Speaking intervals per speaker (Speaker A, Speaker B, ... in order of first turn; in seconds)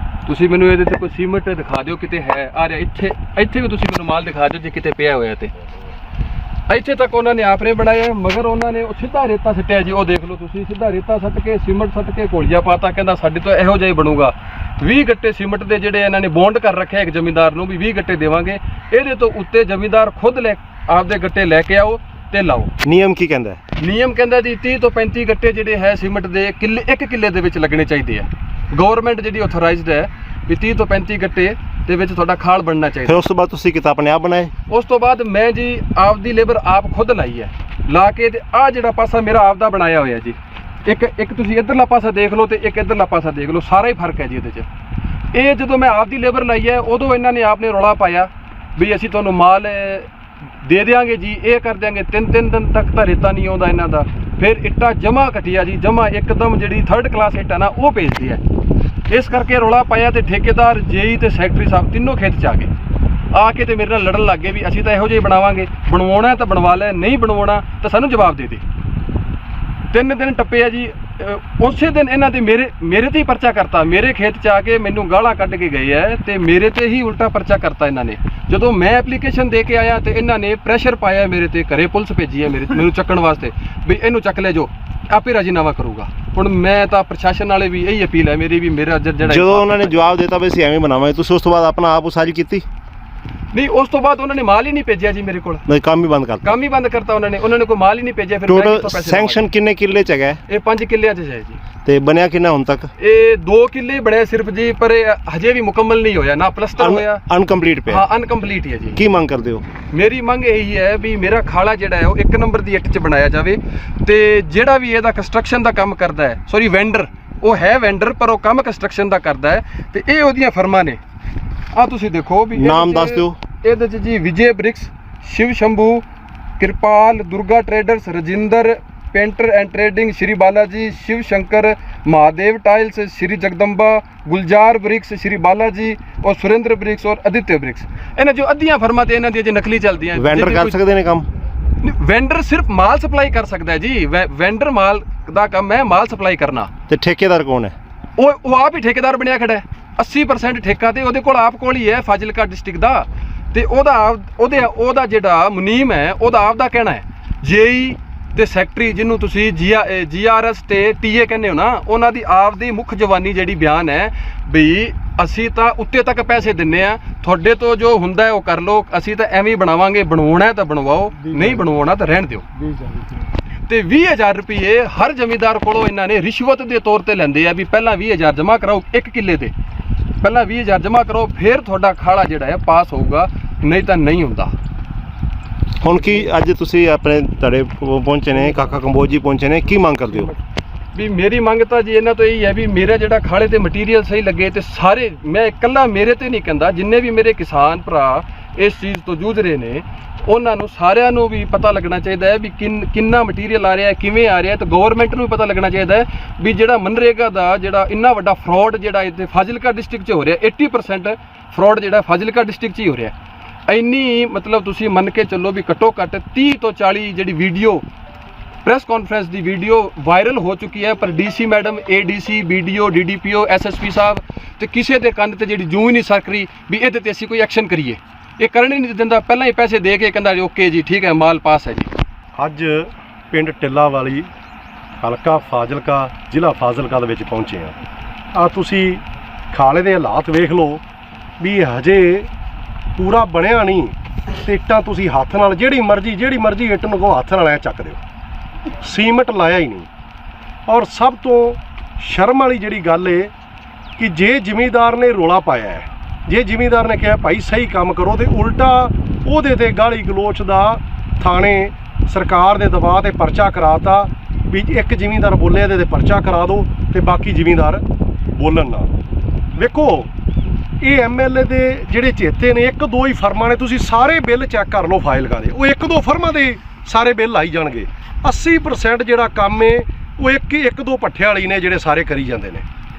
Speaker A: 0.2-5.5, 6.7-22.7, 23.8-33.2, 34.7-44.7, 45.3-50.1, 50.6-58.4, 59.1-62.7, 63.3-68.6, 69.9-90.2, 93.5-95.6, 96.4-99.5, 100.5-101.6, 103.0-107.2, 107.9-109.0, 109.9-121.0, 121.7-126.0, 126.6-140.8, 141.8-146.7, 148.2-172.5, 173.7-179.5, 180.2-184.5, 190.9-213.1, 213.7-217.8, 218.6-231.9
Speaker B: 22.8-23.6, 33.1-34.5, 89.3-92.7, 95.7-96.6, 98.5-100.4, 101.8-102.9, 106.8-108.0, 109.0-109.7, 122.6-123.4, 140.2-141.3, 146.9-147.8, 185.8-190.3
Speaker C: 232.4-234.3, 235.0-237.7, 238.3-240.8, 241.4-242.3, 243.0-248.0, 248.8-249.9, 250.7-253.3, 254.0-268.9, 269.6-270.1, 270.8-282.6